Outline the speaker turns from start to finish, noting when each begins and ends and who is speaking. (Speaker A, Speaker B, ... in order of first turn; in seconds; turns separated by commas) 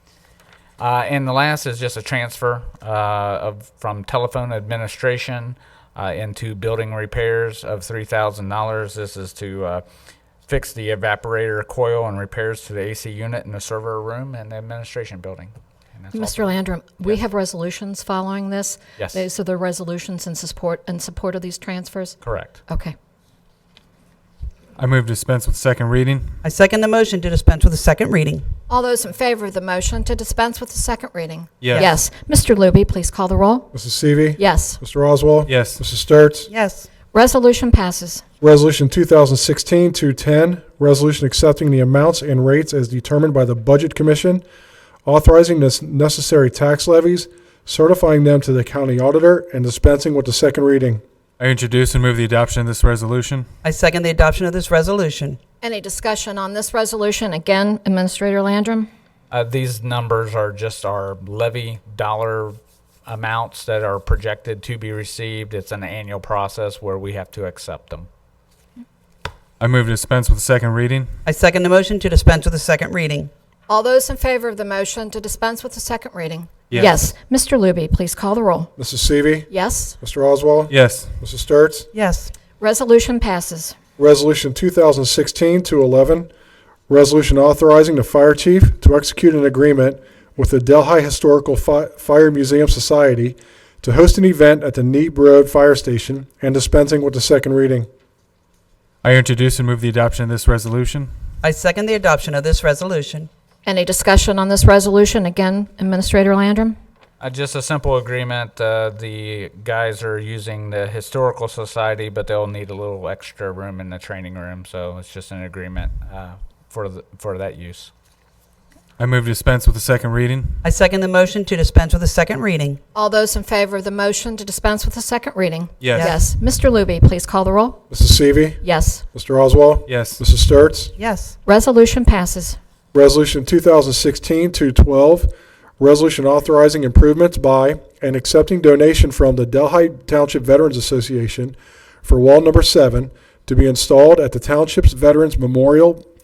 Speaker A: 0.8-9.8, Speaker A: 10.5-17.2, Speaker B: 16.1-22.9, Speaker A: 22.2-22.6, Speaker C: 24.8-26.4, Speaker D: 26.4-28.4, Speaker B: 28.7-33.7, Speaker C: 31.6-31.9, Speaker E: 33.7-36.5, Speaker B: 34.4-34.8, Speaker C: 35.5-35.8, Speaker D: 36.5-36.9, Speaker B: 37.1-38.2, Speaker E: 38.4-44.4, Speaker E: 45.0-51.0, Speaker C: 51.4-53.5, Speaker D: 53.6-55.4, Speaker B: 55.6-58.9, Speaker A: 59.3-68.1, Speaker C: 69.6-71.1, Speaker D: 71.2-73.3, Speaker B: 73.7-78.7, Speaker E: 78.8-81.9, Speaker B: 79.5-80.0, Speaker C: 80.7-81.1, Speaker D: 81.9-82.3, Speaker B: 82.6-83.8, Speaker E: 84.0-86.3, Speaker E: 86.9-97.9, Speaker C: 99.0-101.1, Speaker D: 101.4-103.3, Speaker B: 103.7-106.8, Speaker A: 107.2-117.9, Speaker C: 119.0-120.6, Speaker D: 120.6-122.8, Speaker B: 122.9-127.8, Speaker C: 125.8-126.1, Speaker D: 125.9-126.2, Speaker E: 127.9-128.6, Speaker B: 128.6-129.0, Speaker E: 129.1-130.9, Speaker C: 129.9-130.2, Speaker D: 131.0-131.3, Speaker B: 131.4-132.6, Speaker E: 132.9-146.0